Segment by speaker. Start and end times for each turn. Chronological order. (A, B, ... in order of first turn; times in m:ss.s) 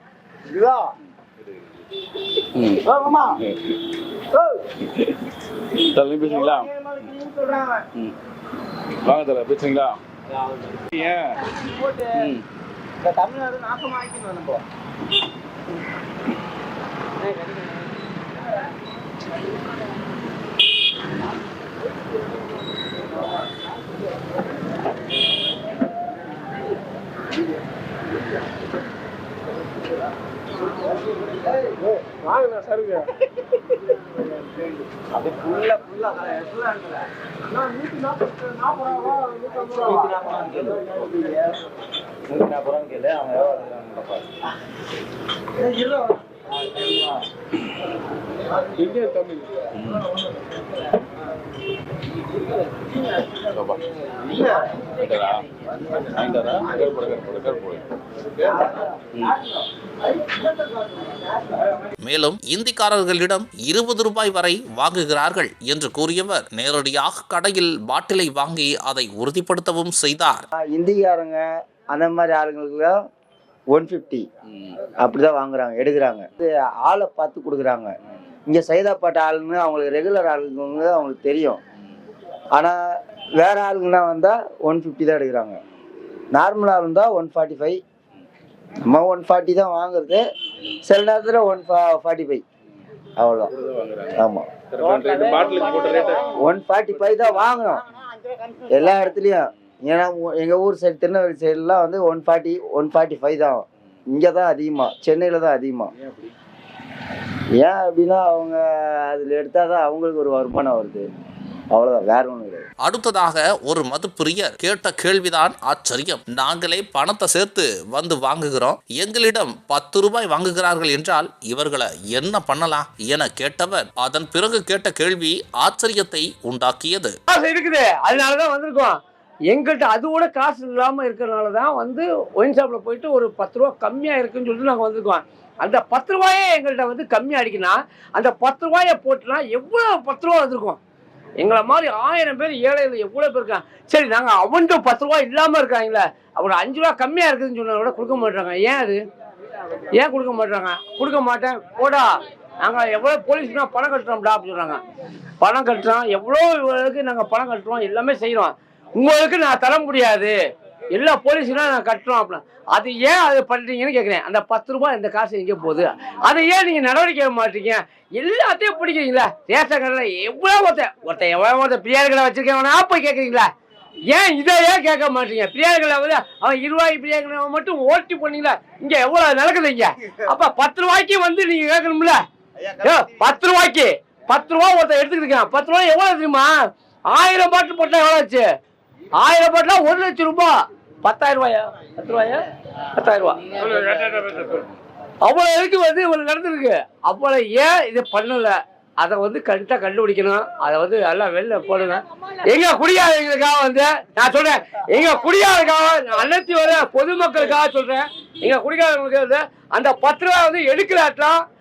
0:00.5-0:00.9 A
0:02.5-0:02.8 B
0:02.8-0:03.3 A
0:03.5-0:03.8 B
0:05.8-0:07.1 B
0:06.6-0:07.9 A
0:09.0-0:10.0 B
0:10.9-0:11.4 B
0:11.6-0:12.2 A
0:12.1-0:12.4 B
0:13.0-0:14.6 A
0:17.3-0:17.7 A
0:35.1-0:37.0 A
0:38.0-0:41.6 A
0:42.3-0:44.3 A
0:45.6-0:46.2 A
0:48.8-0:49.3 A
0:49.7-0:50.1 B
0:53.4-0:53.9 B
0:54.8-0:57.8 B
0:59.1-0:59.4 B
1:02.0-1:10.4 C
1:10.6-1:13.0 A
1:13.7-1:14.2 A
1:15.0-1:17.9 A
1:18.5-1:21.6 A
1:23.4-1:25.6 A
1:26.3-1:27.8 A
1:28.9-1:30.2 A
1:30.8-1:32.4 A
1:33.2-1:33.5 A
1:33.6-1:36.3 B
1:34.2-1:34.5 A
1:36.4-1:37.8 A
1:38.7-1:45.9 A
1:46.0-1:46.3 B
1:47.6-1:51.0 A
1:51.7-1:52.6 A
1:52.8-2:07.1 C
2:07.3-2:09.0 D
2:09.5-2:20.8 D
2:21.4-2:29.0 D
2:29.9-2:34.8 D
2:35.4-2:40.3 D
2:40.9-2:53.5 D
2:54.1-3:02.2 D
3:02.8-3:06.5 D
3:07.1-3:08.4 D
3:09.2-3:12.4 D
3:13.0-3:14.6 D
3:15.2-3:31.4 D